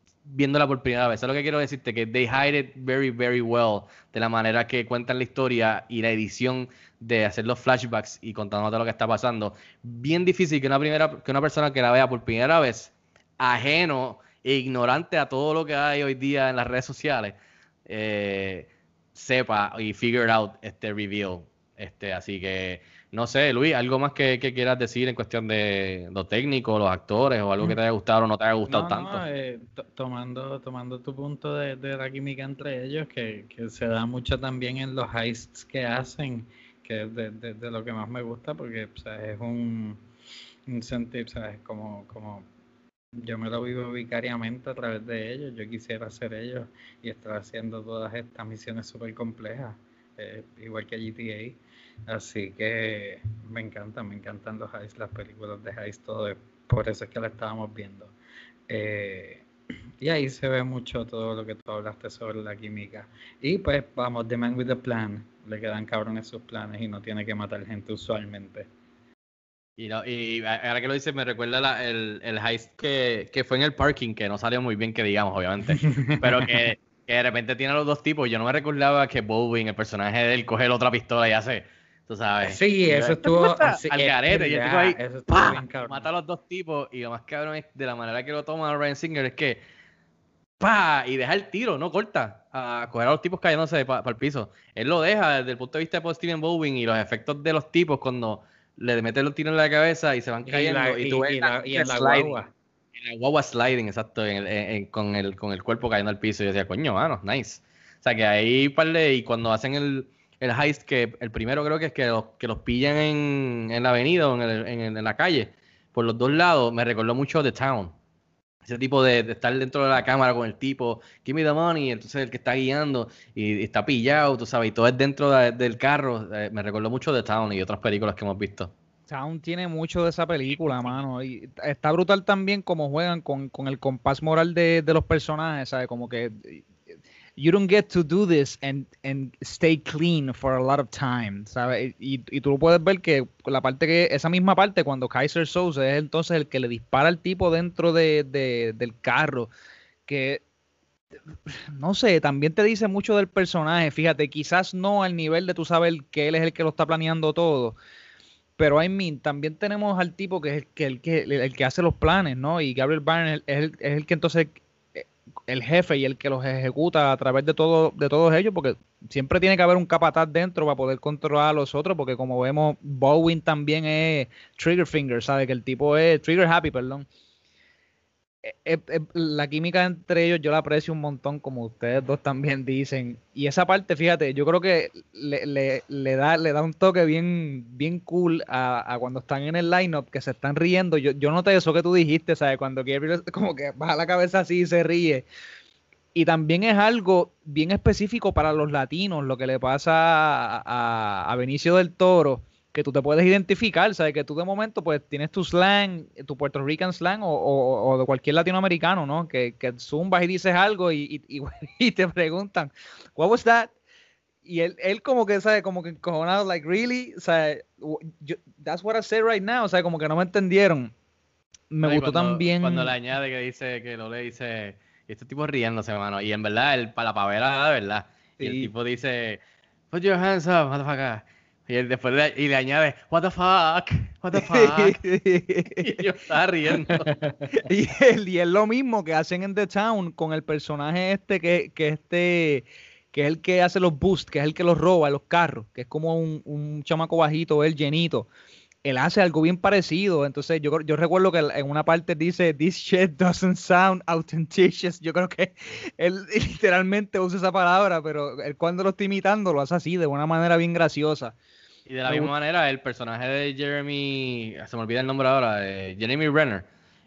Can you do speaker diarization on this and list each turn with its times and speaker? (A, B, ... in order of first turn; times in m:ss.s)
0:00.2-0:29.2 A
0:28.7-0:40.0 B
0:40.7-0:42.5 B
0:43.2-0:58.1 B
0:58.7-0:59.4 B
1:00.0-1:08.6 B
1:09.8-1:29.6 A
1:15.7-1:16.5 B
1:22.4-1:26.1 B
1:30.6-1:42.4 A
1:40.4-1:42.5 B
1:43.0-1:57.9 A
1:58.6-2:08.7 A
2:09.1-2:16.6 C
2:17.4-2:29.5 C
2:30.1-2:30.4 C
2:31.5-2:37.8 C
2:38.6-2:57.0 C
2:58.4-3:15.2 C
3:16.1-3:33.7 C
3:34.4-3:40.9 C
3:41.7-3:42.9 C
3:41.8-3:55.0 A
3:48.4-3:48.7 C
3:54.3-3:56.0 C
3:55.8-3:57.1 A
3:57.5-4:08.3 C
4:08.8-4:21.3 C
4:21.9-4:26.6 A
4:22.0-4:22.3 C